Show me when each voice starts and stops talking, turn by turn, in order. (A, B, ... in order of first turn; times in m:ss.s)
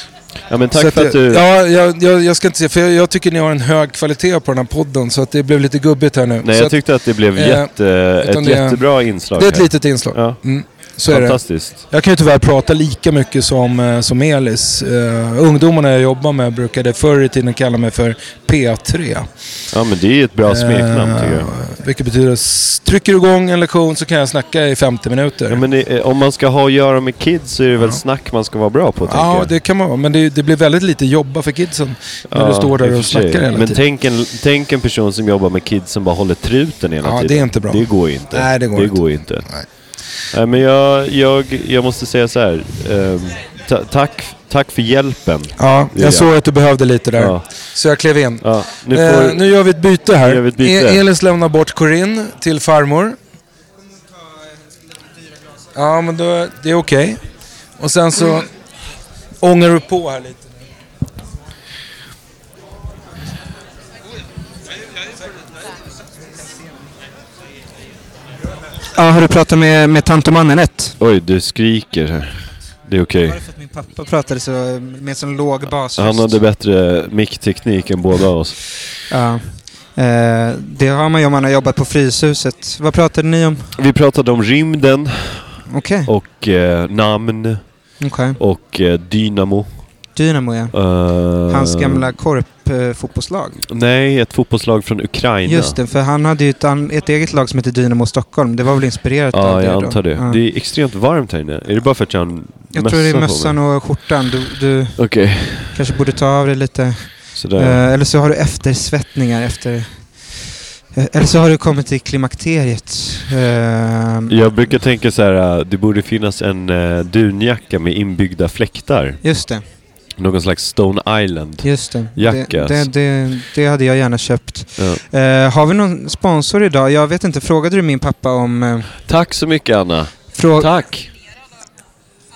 0:00.5-0:01.4 A
0:00.7-0:19.7 B
0:06.4-0:11.8 A
0:19.7-0:21.5 A
0:20.4-0:25.6 B
0:25.5-0:29.5 A
0:29.0-0:33.8 B
0:32.3-0:46.6 A
0:37.0-0:40.0 B
0:45.6-0:53.2 B
0:47.1-0:47.7 A
0:48.4-0:49.6 A
0:50.2-0:51.0 A
0:55.7-0:58.5 B
0:59.4-1:00.6 B
1:08.9-1:11.0 C
1:11.0-1:13.4 A
1:13.2-1:16.4 C
1:16.0-1:18.8 A
1:19.1-1:23.7 C
1:23.8-1:30.2 A
1:25.7-1:26.1 C
1:28.0-1:28.4 C
1:30.1-1:33.6 C
1:30.7-1:32.2 A
1:33.7-1:35.8 A
1:35.4-1:40.4 C
1:39.3-1:43.7 A
1:42.7-1:54.3 C
1:45.0-1:45.9 A
1:47.4-1:47.8 A
1:54.3-1:59.3 A
1:59.2-1:59.6 C
2:00.2-2:02.9 A
2:01.6-2:08.9 C
2:04.8-2:05.0 A
2:09.0-2:11.1 A
2:10.3-2:10.8 C